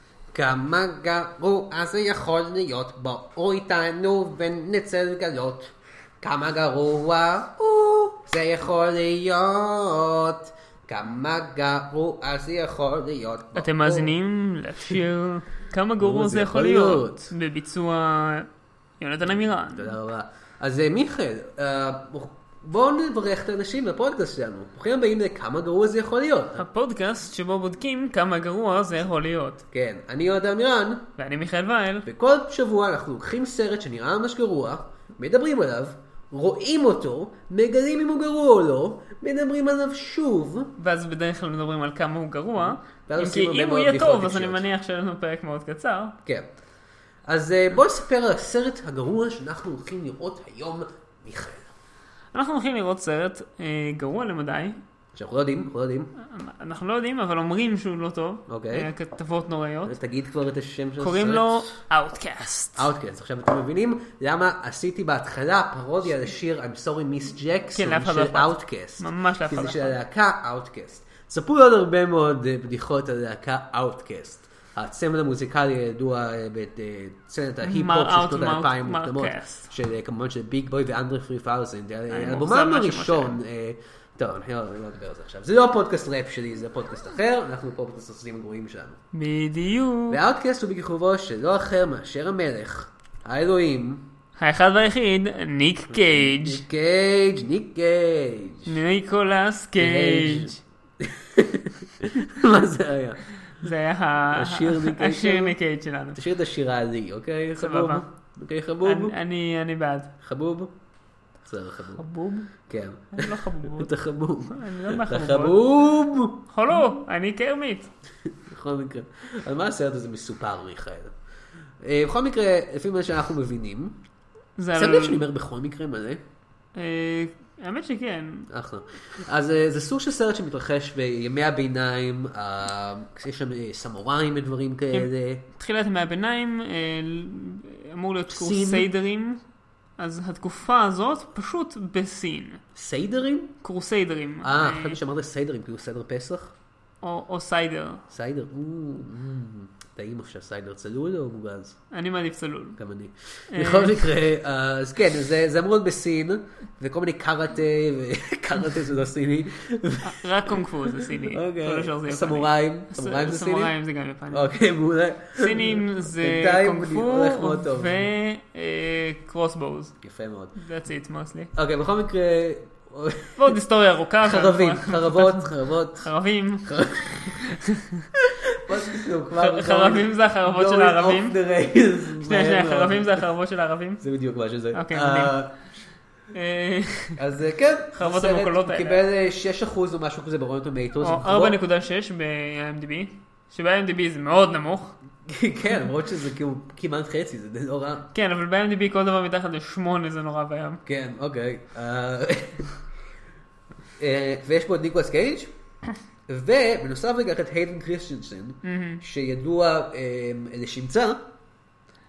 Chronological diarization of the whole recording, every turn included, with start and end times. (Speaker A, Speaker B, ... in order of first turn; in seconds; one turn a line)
Speaker A: 0.3-14.1
Speaker B: 13.5-18.5
Speaker A: 16.0-17.3
Speaker B: 19.0-19.9
Speaker A: 19.7-26.6
Speaker B: 26.6-29.6
Speaker A: 29.7-31.1
Speaker B: 31.2-32.1
Speaker A: 32.0-40.7
Speaker B: 40.8-46.1
Speaker A: 43.0-44.6
Speaker A: 47.2-51.7
Speaker B: 52.3-54.8
Speaker A: 55.1-56.1
Speaker B: 56.2-60.0
Speaker A: 58.5-58.9
Speaker A: 59.9-61.8
Speaker B: 61.0-62.9
Speaker A: 62.8-89.0
Speaker B: 67.7-70.0
Speaker B: 77.6-79.7
Speaker B: 82.1-83.4
Speaker B: 89.1-90.2
Speaker A: 90.1-94.1
Speaker B: 94.4-96.6
Speaker A: 95.9-98.8
Speaker B: 98.7-100.6
Speaker A: 99.8-103.2
Speaker B: 103.6-106.2
Speaker A: 104.3-105.6
Speaker A: 106.1-109.2
Speaker B: 107.6-108.0
Speaker B: 108.8-110.1
Speaker A: 110.2-110.7
Speaker A: 111.4-112.0
Speaker B: 112.0-112.5
Speaker A: 112.5-116.4
Speaker B: 113.1-113.9
Speaker B: 114.5-115.6
Speaker B: 116.5-117.9
Speaker A: 118.3-121.1
Speaker A: 121.8-124.0
Speaker B: 124.6-125.2
Speaker A: 124.7-126.2
Speaker B: 126.7-128.5
Speaker A: 128.5-135.4
Speaker B: 134.9-139.4
Speaker A: 138.3-138.9
Speaker B: 140.0-142.6
Speaker A: 142.7-143.6
Speaker B: 143.6-145.0
Speaker A: 144.4-146.5
Speaker B: 147.0-148.0
Speaker A: 148.1-151.8
Speaker B: 151.9-152.8
Speaker A: 152.8-163.7
Speaker B: 153.5-154.1
Speaker B: 160.0-164.5
Speaker A: 164.3-168.1
Speaker B: 165.3-169.9
Speaker A: 170.0-170.5
Speaker B: 170.5-171.5
Speaker A: 171.5-173.4
Speaker B: 173.3-178.0
Speaker A: 174.2-176.1
Speaker A: 176.6-177.3
Speaker A: 178.2-183.2
Speaker B: 179.3-181.4
Speaker B: 182.2-184.0
Speaker A: 184.0-185.6
Speaker B: 184.7-185.4
Speaker B: 186.3-187.2
Speaker A: 187.2-191.6
Speaker B: 187.9-189.0
Speaker B: 191.0-194.9
Speaker A: 195.2-198.1
Speaker B: 198.1-200.8
Speaker A: 200.8-202.7
Speaker A: 204.0-205.5
Speaker A: 206.3-211.3
Speaker B: 208.6-209.0